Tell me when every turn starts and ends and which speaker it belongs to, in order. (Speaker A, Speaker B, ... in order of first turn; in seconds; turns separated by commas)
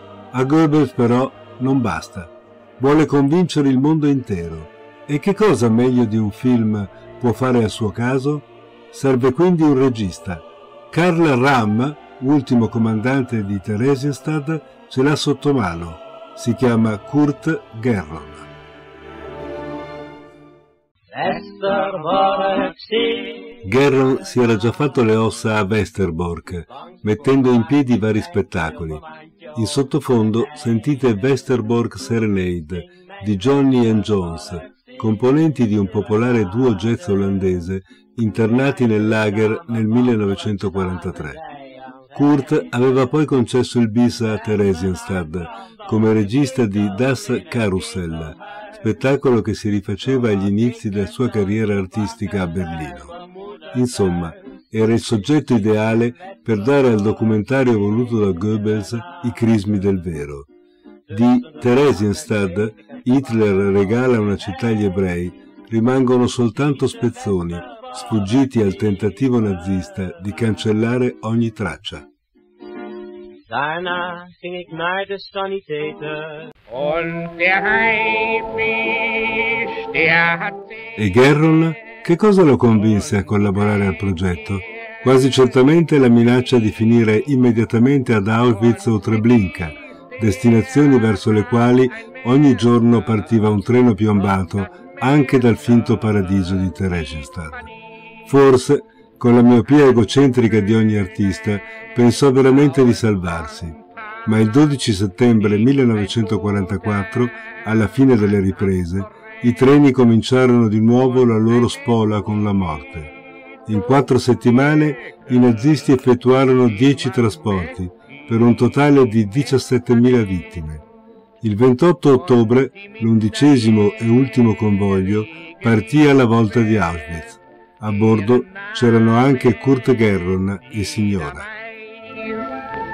Speaker A: 0.3-18.5, Speaker B: 21.1-23.6, Speaker A: 23.6-29.0, Speaker A: 29.6-41.4, Speaker A: 42.1-53.1, Speaker B: 53.1-53.6, Speaker A: 53.7-60.5, Speaker A: 61.1-72.1, Speaker B: 73.5-76.5, Speaker C: 76.7-80.9, Speaker A: 81.0-97.7, Speaker A: 98.3-113.1, Speaker A: 113.7-120.8, Speaker A: 121.4-131.5, Speaker C: 132.0-132.5